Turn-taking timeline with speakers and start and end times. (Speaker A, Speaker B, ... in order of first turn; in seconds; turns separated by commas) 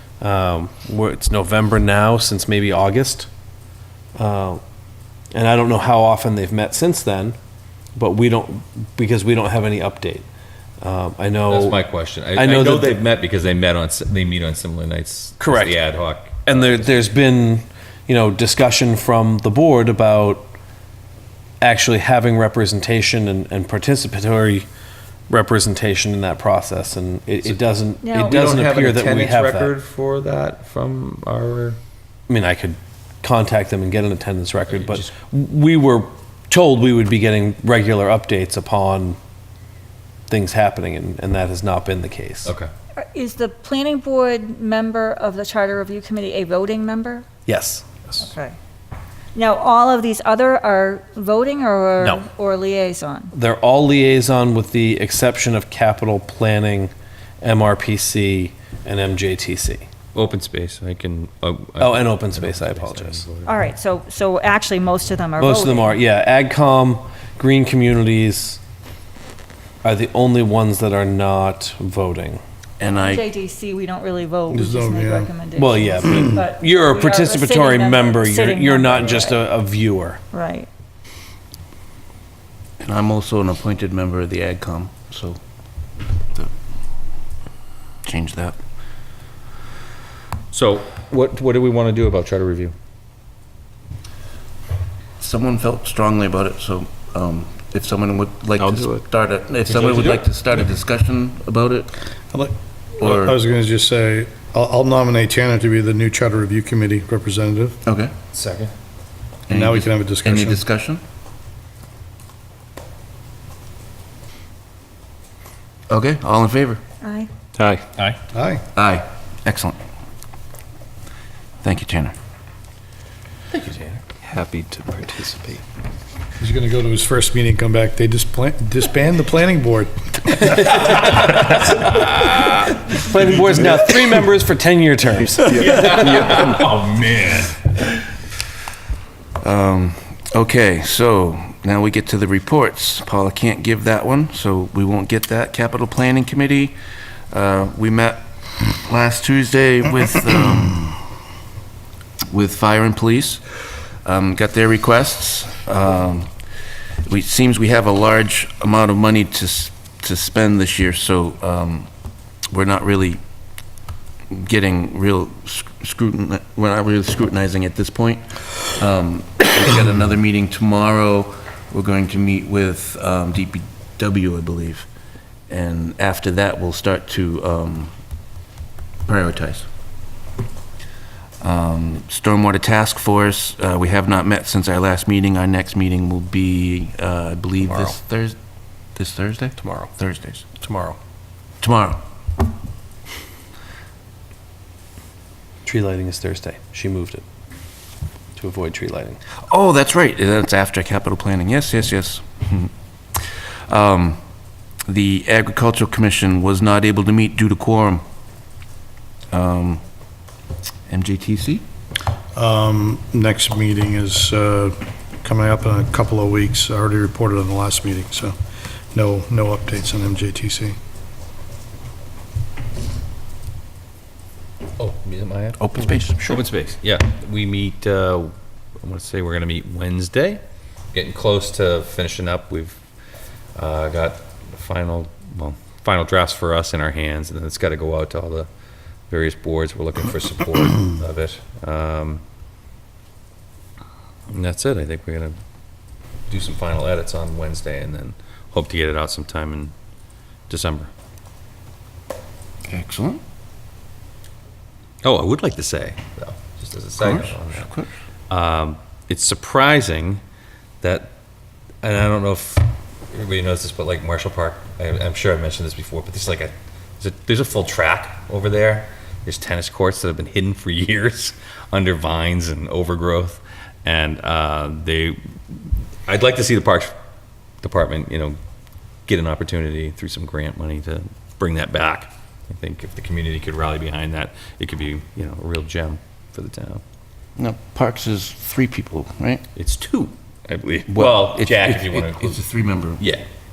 Speaker A: 0.2-3.3, Speaker A: 4.2-4.6, Speaker A: 5.3-7.4, Speaker A: 8.0-10.3, Speaker A: 10.8-11.8, Speaker B: 11.5-16.9, Speaker A: 12.3-13.0, Speaker A: 15.4-15.8, Speaker A: 16.4-20.5, Speaker A: 21.6-24.6, Speaker A: 25.3-29.7, Speaker C: 28.0-28.4, Speaker B: 28.2-31.8, Speaker A: 32.3-39.2, Speaker B: 34.7-35.0, Speaker A: 40.3-42.5, Speaker B: 42.5-42.7, Speaker C: 43.0-47.3, Speaker A: 47.5-48.3, Speaker C: 48.2-48.6, Speaker C: 49.4-53.3, Speaker A: 53.3-59.9, Speaker B: 60.1-63.5, Speaker A: 61.8-63.3, Speaker C: 63.5-66.0, Speaker A: 65.4-68.6, Speaker A: 69.8-72.4, Speaker D: 72.8-73.2, Speaker C: 73.0-79.4, Speaker E: 74.5-75.3, Speaker A: 75.5-80.2, Speaker C: 80.3-80.7, Speaker D: 82.8-85.4, Speaker D: 88.0-88.6, Speaker B: 90.5-92.7, Speaker D: 95.2-101.9, Speaker B: 98.6-99.0, Speaker B: 99.7-100.2, Speaker E: 102.3-107.8, Speaker D: 103.0-103.4, Speaker D: 107.9-108.1, Speaker B: 108.3-108.7, Speaker D: 109.5-111.0, Speaker E: 109.5-110.6, Speaker D: 115.9-116.8, Speaker C: 117.0-117.3, Speaker B: 117.6-118.2, Speaker E: 118.3-118.6, Speaker D: 118.7-119.8, Speaker D: 121.6-122.2, Speaker B: 123.5-125.6, Speaker E: 126.4-129.9, Speaker A: 130.6-132.1, Speaker B: 130.8-132.4, Speaker A: 132.9-136.3, Speaker B: 135.6-137.6, Speaker D: 139.4-146.8, Speaker D: 147.3-151.0, Speaker D: 152.3-156.3, Speaker D: 157.1-161.9, Speaker D: 162.5-163.2, Speaker D: 164.3-174.9, Speaker D: 175.5-177.9, Speaker D: 179.1-179.7, Speaker D: 181.4-188.4, Speaker D: 188.9-190.6, Speaker B: 190.7-191.0, Speaker D: 191.6-192.0, Speaker A: 195.7-197.2, Speaker A: 198.4-199.2, Speaker D: 199.5-204.2, Speaker D: 204.9-208.0, Speaker D: 209.3-209.8, Speaker D: 210.9-211.6, Speaker E: 212.3-218.4, Speaker E: 218.9-220.8, Speaker B: 224.8-225.6, Speaker D: 225.6-226.4, Speaker B: 226.2-230.4, Speaker B: 230.9-232.8, Speaker B: 233.6-238.5, Speaker B: 239.1-242.2, Speaker B: 244.3-245.4, Speaker B: 246.3-249.7, Speaker B: 250.5-250.9, Speaker D: 252.7-253.2, Speaker B: 255.0-257.7, Speaker D: 257.0-257.9, Speaker B: 258.3-260.2, Speaker B: 260.8-261.1, Speaker B: 261.8-275.6, Speaker B: 276.1-276.9, Speaker B: 277.6-278.4, Speaker B: 279.1-286.8, Speaker D: 287.4-289.5, Speaker B: 289.6-292.4, Speaker D: 290.9-293.1, Speaker B: 293.0-293.2